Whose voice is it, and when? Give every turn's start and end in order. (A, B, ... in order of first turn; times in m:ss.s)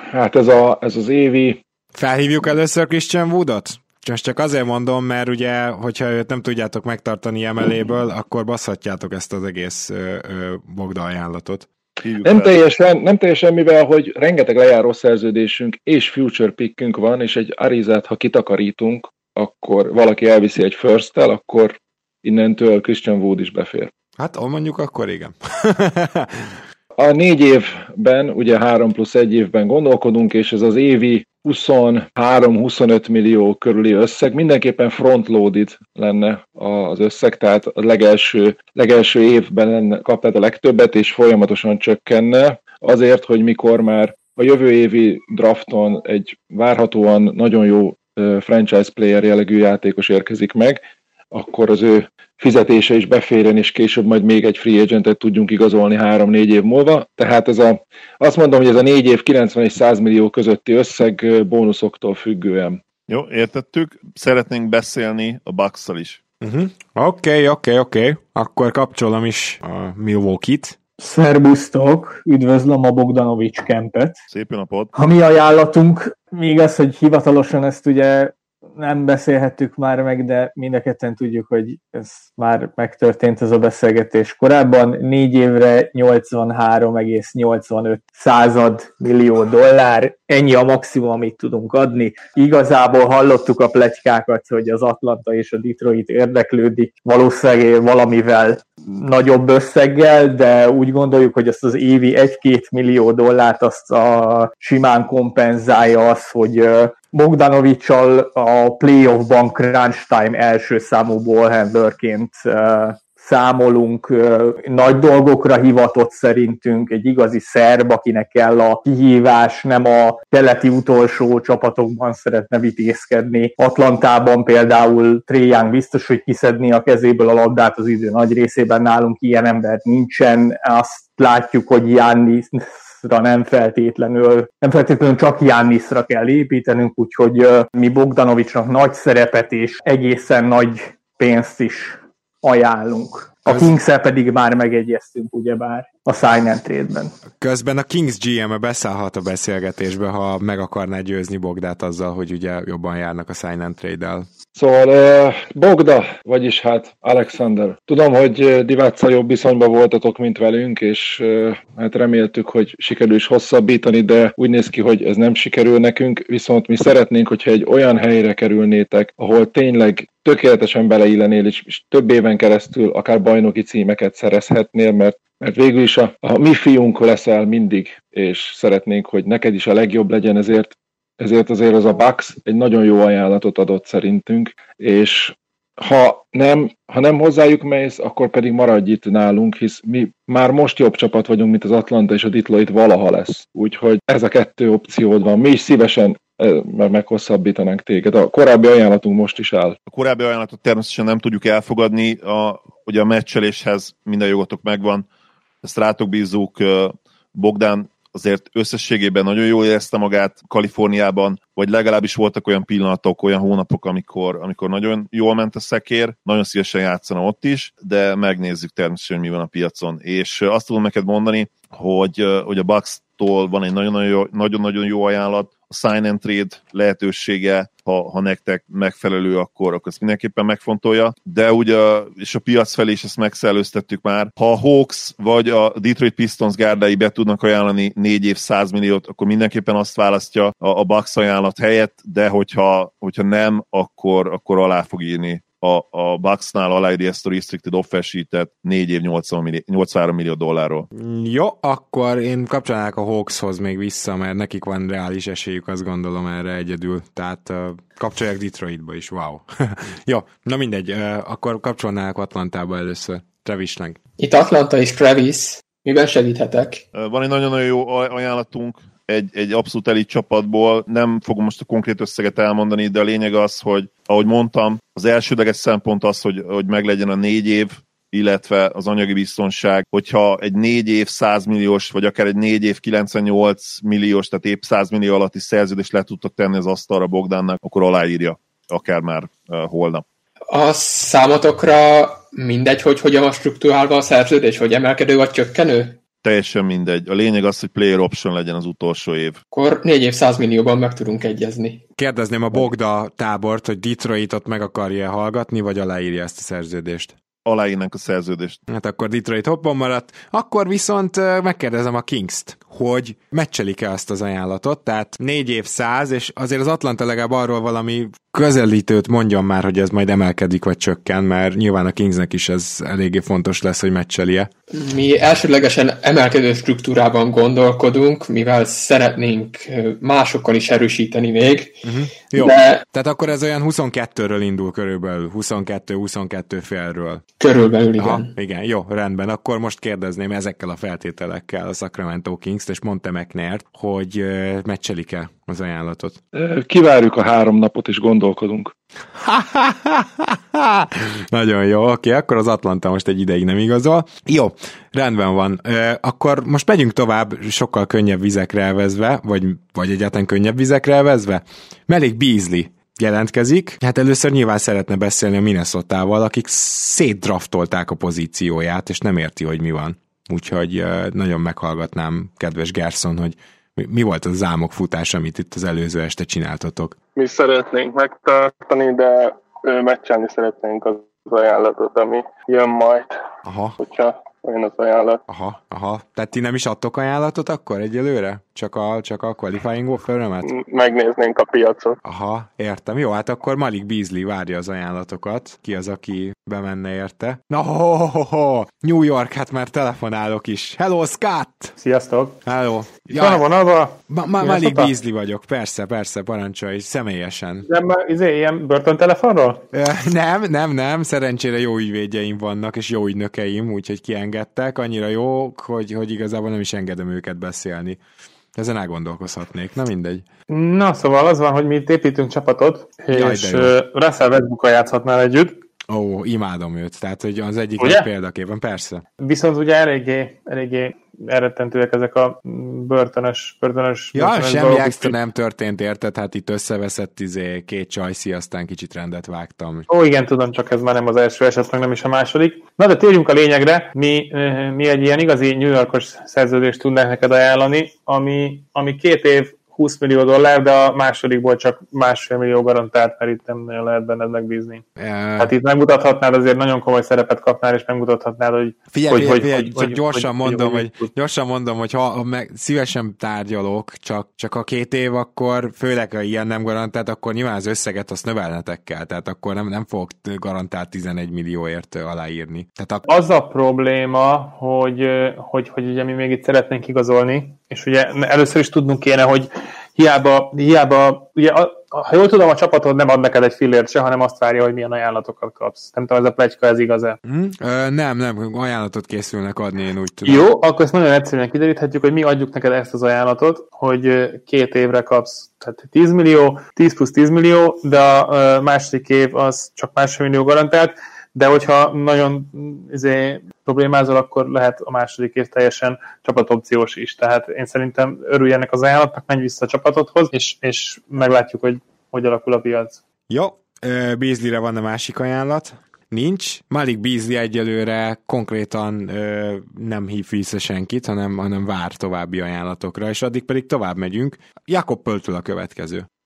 0:00.1-0:01.6 A
0:01.9-0:11.7 B
0:12.0-0:12.5 C
0:12.2-0:23.9 A
0:24.2-0:26.6 B
0:27.0-1:02.8 A
1:03.1-1:06.2 C
1:06.4-1:10.8 B
1:11.0-1:14.2 D
1:14.3-1:14.9 C
1:14.9-2:27.1 D
2:27.4-2:34.3 B
2:34.6-3:19.8 A
3:19.9-3:25.0 C
3:25.6-4:10.9 C
4:10.9-4:24.0 B
4:24.2-4:26.8 E
4:26.9-4:50.0 C
4:50.5-4:56.0 E
4:56.2-4:59.4 C
4:59.5-5:01.8 E
5:02.0-5:07.1 B
5:07.4-5:08.6 C
5:08.7-5:24.5 B
5:24.7-5:32.8 E
5:31.8-5:37.2 B
5:37.4-5:38.3 E
5:38.0-5:46.2 B
5:46.3-5:48.7 A
5:49.1-6:17.0 B
6:17.2-6:23.2 F
6:23.4-6:23.8 B
6:23.8-6:25.2 F
6:25.3-6:30.5 B
6:30.4-6:32.0 F
6:32.0-6:41.7 B
6:41.8-6:42.4 G
6:42.4-6:43.4 B
6:43.0-6:44.9 G
6:44.1-6:47.7 B
6:47.6-6:49.6 G
6:49.7-6:58.0 B
6:58.5-7:00.2 B
7:00.5-7:05.6 G
7:03.1-7:03.7 B
7:05.9-7:09.0 B
7:07.8-7:08.1 G
7:09.2-7:15.2 G
7:14.1-7:19.9 B
7:19.9-7:34.8 G
7:35.0-7:35.5 B
7:35.4-7:41.1 G
7:38.9-7:53.0 B
7:53.0-8:07.2 G
8:07.2-8:10.4 B
8:10.2-8:33.0 G
8:33.3-8:46.1 B